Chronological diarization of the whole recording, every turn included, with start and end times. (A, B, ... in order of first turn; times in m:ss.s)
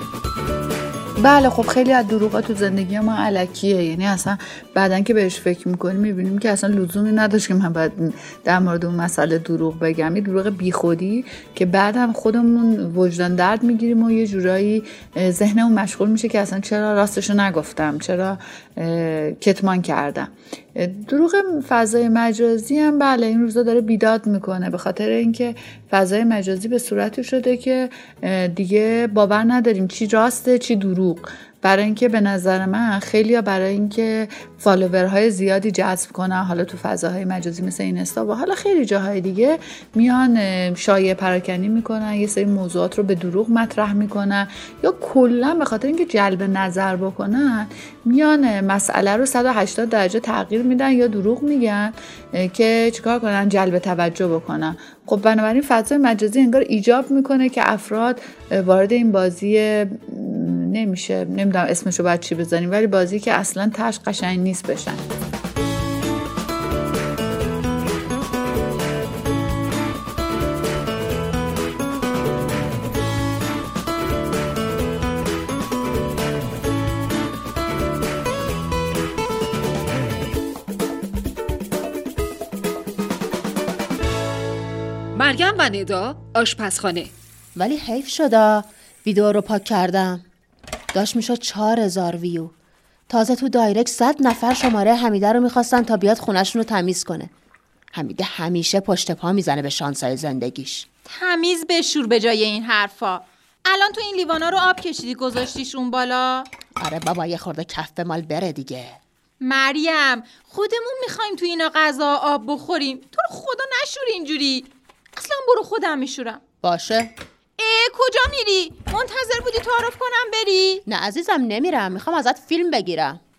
0:01.2-1:05.0 A
1:25.1-1:27.1 B
1:27.6-1:30.2 C
1:30.9-1:32.5 C
1:33.1-1:37.3 C
1:37.9-1:40.8 C
1:41.1-1:46.5 D
1:46.8-1:49.0 C
1:49.4-1:56.4 D
1:56.6-1:57.1 C
1:57.6-2:00.8 D
2:00.9-2:03.2 C